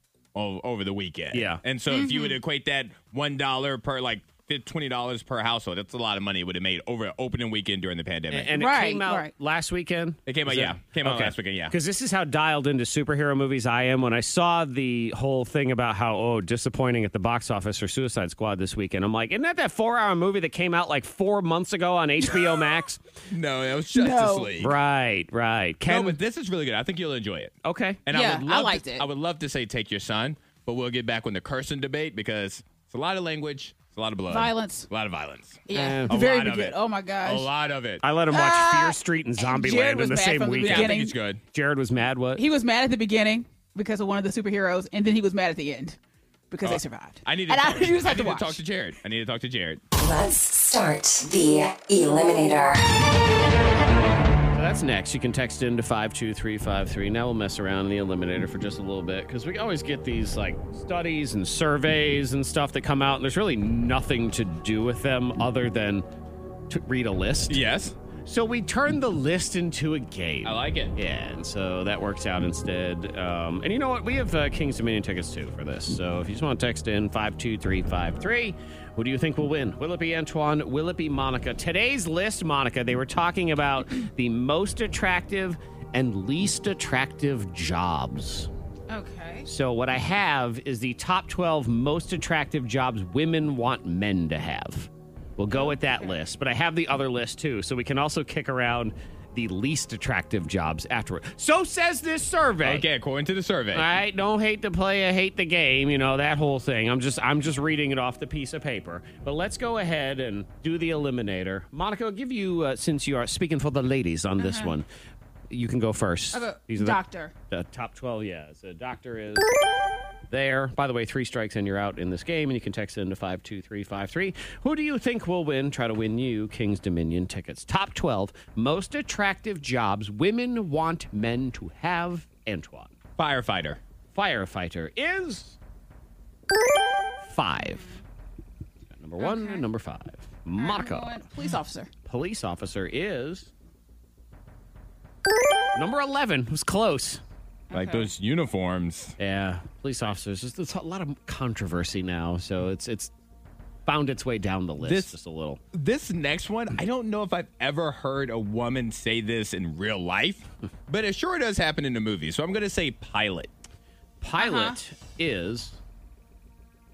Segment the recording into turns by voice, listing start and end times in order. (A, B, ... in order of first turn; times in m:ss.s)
0:00.3-0:08.5 A
0:01.3-0:01.6 B
0:01.9-0:02.4 C
0:08.3-0:23.0 B
0:08.5-0:09.3 C
0:10.2-0:11.7 A
0:23.3-0:24.7 A
0:23.9-0:24.5 C
0:24.6-0:26.2 B
0:25.9-0:38.0 A
0:27.6-0:28.0 B
0:28.1-0:29.1 C
0:34.3-0:34.9 C
0:35.7-0:37.5 C
0:35.7-0:36.1 B
0:38.0-0:41.0 B
0:38.3-0:41.1 C
0:40.6-0:41.4 A
0:41.5-0:42.4 B
0:42.4-0:46.0 C
0:46.5-0:48.6 C
0:46.6-0:49.8 A
0:50.0-0:52.8 D
0:54.5-1:06.0 B
1:06.7-1:07.6 B
1:07.5-1:08.0 A
1:08.2-1:28.5 B
1:10.4-1:10.9 A
1:28.9-1:29.5 C
1:29.4-1:42.8 B
1:35.5-1:36.1 C
1:42.6-1:43.9 A
1:43.7-1:54.8 B
1:54.4-1:54.8 C
1:55.5-1:59.5 B
1:56.3-1:57.3 C
2:00.3-2:12.9 B
2:13.2-2:13.8 A
2:14.1-2:15.6 B
2:17.2-2:17.9 B
2:17.6-2:18.0 C
2:19.0-2:21.1 B
2:19.2-2:19.6 C
2:20.6-2:21.9 C
2:22.0-2:23.5 B
2:25.7-2:27.2 B
2:27.7-2:28.1 C
2:27.7-2:29.1 A
2:29.2-2:33.1 B
2:33.8-2:35.6 B
2:34.8-2:35.1 A
2:35.7-2:43.5 A
2:44.2-2:45.8 B
2:44.4-2:44.8 C